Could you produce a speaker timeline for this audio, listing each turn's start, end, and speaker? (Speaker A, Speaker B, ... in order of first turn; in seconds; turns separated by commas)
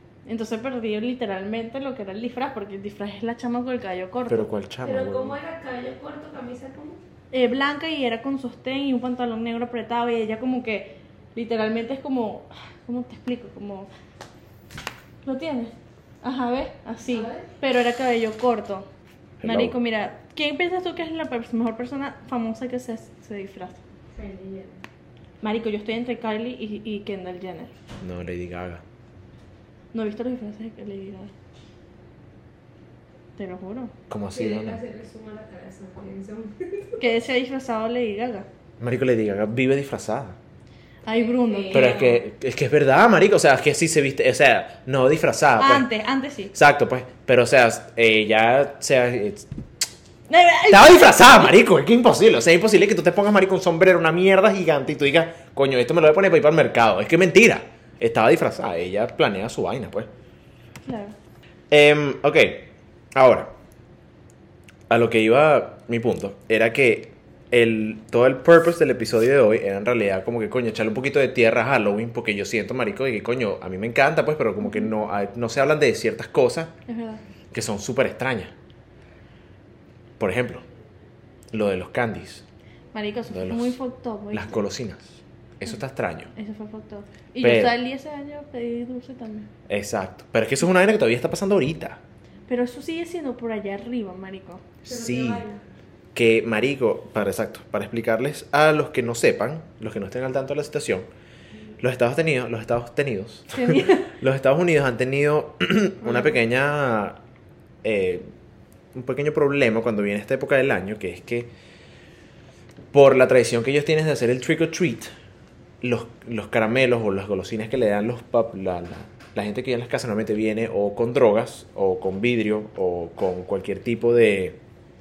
Speaker A: 0.3-4.5, Speaker B: 4.3-5.4, Speaker C: 4.8-7.0, Speaker A: 7.3-13.9, Speaker A: 15.2-18.9, Speaker C: 17.1-17.5, Speaker B: 19.4-19.8, Speaker A: 19.4-23.8, Speaker C: 24.1-24.8, Speaker A: 25.4-27.7, Speaker B: 28.0-28.8, Speaker A: 29.9-31.3, Speaker A: 33.4-33.9, Speaker B: 34.1-34.8, Speaker C: 34.3-37.0, Speaker A: 37.0-38.5, Speaker B: 38.8-40.4, Speaker A: 41.0-42.0, Speaker C: 41.1-42.2, Speaker B: 41.7-45.9, Speaker A: 45.6-46.5, Speaker B: 46.5-49.5, Speaker A: 50.3-51.5, Speaker B: 50.7-60.1, Speaker A: 60.9-61.1, Speaker B: 61.7-63.5, Speaker B: 64.9-76.7, Speaker A: 74.6-74.9, Speaker A: 76.9-77.2, Speaker B: 77.5-78.5, Speaker B: 80.2-80.6, Speaker B: 81.5-82.4, Speaker A: 82.9-84.6, Speaker B: 83.3-83.8, Speaker B: 84.3-86.3, Speaker A: 86.3-89.5, Speaker B: 87.4-87.8, Speaker B: 89.7-92.0, Speaker A: 92.5-94.6, Speaker C: 94.9-95.6, Speaker B: 94.9-95.5, Speaker B: 96.2-101.1, Speaker B: 101.8-107.2, Speaker A: 103.5-104.1, Speaker A: 106.0-106.3, Speaker B: 107.8-108.3, Speaker B: 108.9-111.5, Speaker B: 112.9-115.1, Speaker B: 115.8-124.6